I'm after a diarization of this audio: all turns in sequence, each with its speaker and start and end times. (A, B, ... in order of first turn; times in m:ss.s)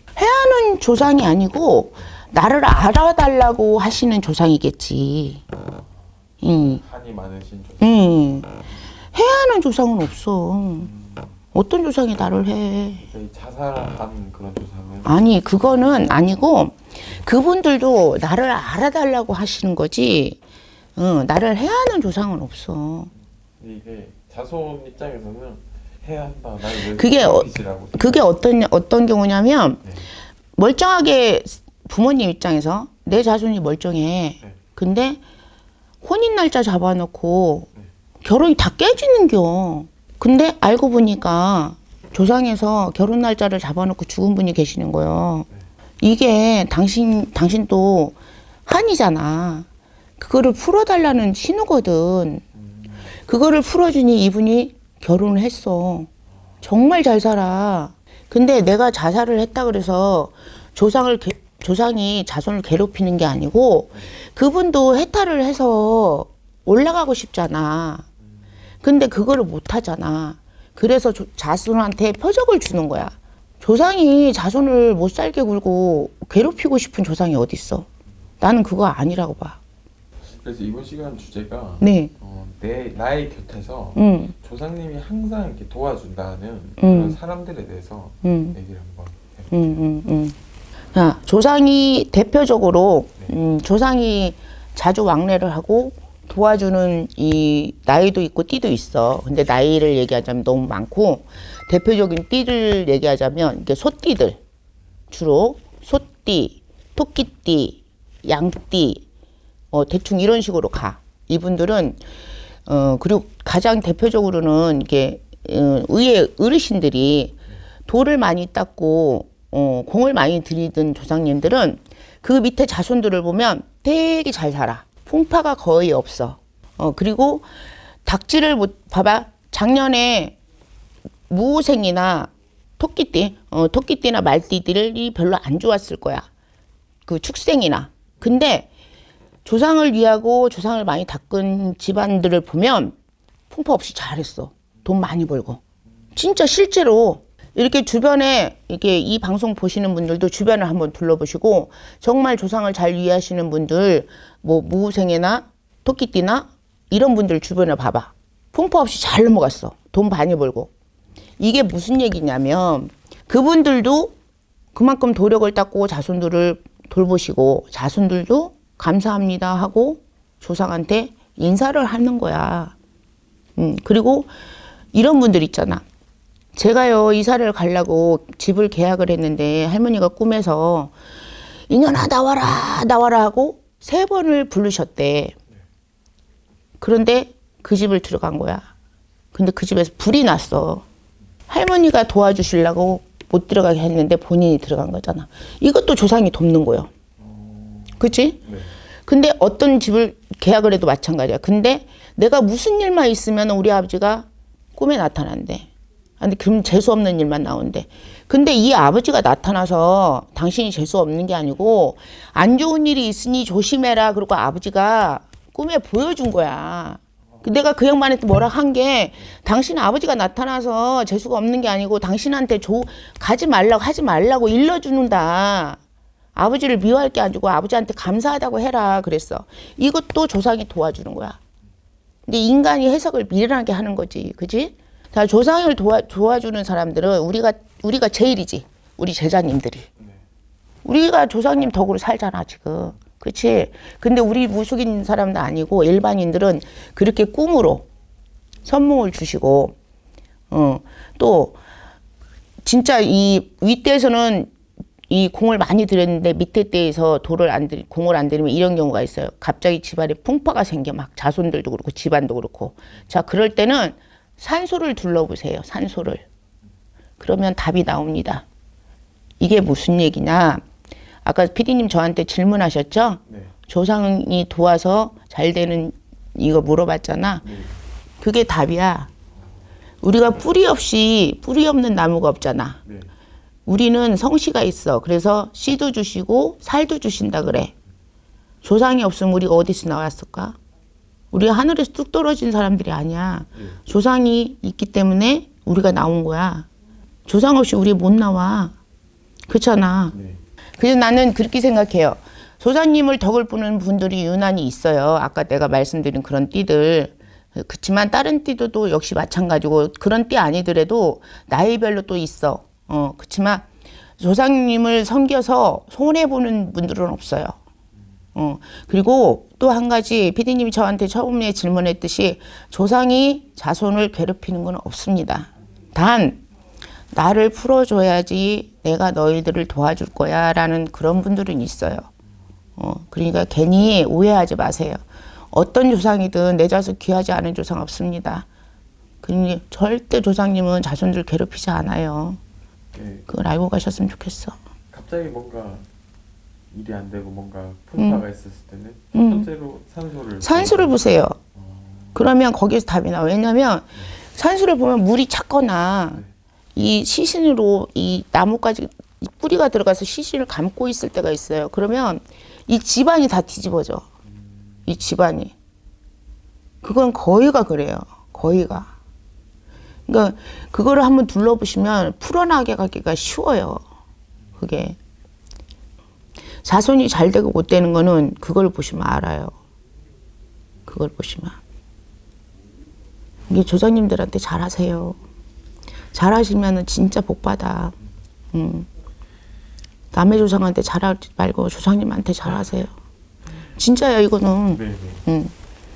0:00.2-0:05.4 A
0:06.4-0:06.8 A
0:06.5-0:08.2 B
0:07.8-0:08.5 A
0:09.1-0:10.9 A
0:10.9-0:11.3 B
0:11.5-0:13.0 A
0:13.0-0:15.2 B
0:15.0-0:20.4 A
0:21.0-0:23.1 A
0:23.6-0:28.2 B
0:26.9-0:29.8 A
0:29.8-0:30.1 B
0:30.6-0:35.2 A
0:36.0-0:37.7 A
0:38.2-0:45.5 A
0:46.0-0:48.2 A
0:48.7-0:49.7 A
0:50.2-0:52.4 A
0:53.2-0:56.1 A
0:56.6-1:08.1 A
1:08.8-1:17.9 A
1:18.4-1:19.6 A
1:20.2-1:29.9 B
1:21.8-1:22.1 A
1:24.0-1:24.3 A
1:26.8-1:27.2 A
1:28.2-1:28.6 A
1:29.5-1:30.4 A
1:30.9-1:44.4 A
1:45.1-1:49.0 A
1:49.7-1:52.0 A
1:52.7-2:07.5 A
2:08.0-2:10.4 A
2:11.3-2:16.2 A
2:17.1-2:18.7 A
2:19.4-2:22.9 A
2:23.5-2:25.6 A
2:26.2-2:40.7 A
2:41.4-2:44.2 A
2:44.7-2:52.7 A
2:53.6-2:54.3 A
2:54.9-2:55.8 A
2:56.5-3:00.9 A
3:01.7-3:05.4 A
3:06.8-3:08.7 A
3:09.3-3:10.8 A
3:11.5-3:16.9 A
3:17.2-3:18.8 B
3:18.0-3:18.4 A
3:19.1-3:25.7 A
3:26.2-3:45.8 A
3:46.3-3:51.4 A
3:52.3-3:59.9 A
4:00.8-4:07.9 A
4:08.6-4:09.8 A
4:10.5-4:11.6 A
4:12.6-4:14.5 A
4:15.1-4:26.2 A
4:27.2-4:28.4 A
4:29.4-4:30.6 A
4:31.2-4:37.4 A
4:33.3-4:33.5 B
4:37.4-4:37.8 B
4:38.2-4:39.1 A
4:40.0-4:42.8 A
4:42.8-4:43.1 B
4:43.6-4:47.7 A
4:48.6-4:50.6 A
4:51.3-4:56.7 A
4:57.2-4:58.7 A
4:59.5-5:00.1 A
5:00.1-5:00.4 B
5:00.8-5:13.6 A
5:14.2-5:17.6 A
5:18.3-5:26.4 A
5:27.1-5:32.1 A
5:32.8-5:38.5 A
5:39.2-5:42.4 A
5:42.9-5:43.3 B
5:43.3-5:44.5 A
5:44.9-5:45.8 B
5:46.7-5:51.0 B
5:48.0-5:48.2 A
5:49.1-5:49.5 A
5:50.4-5:51.4 A
5:51.5-5:52.2 B
5:52.1-5:56.2 A
5:56.7-6:04.0 A
6:04.9-6:05.5 A
6:06.8-6:08.9 A
6:10.1-6:13.8 A
6:14.6-6:15.0 A
6:16.6-6:19.5 A
6:20.9-6:21.6 A
6:23.5-6:25.2 A
6:26.1-6:27.9 A
6:28.5-6:28.9 A
6:30.1-6:32.9 A
6:33.8-6:35.5 A
6:34.7-6:35.2 B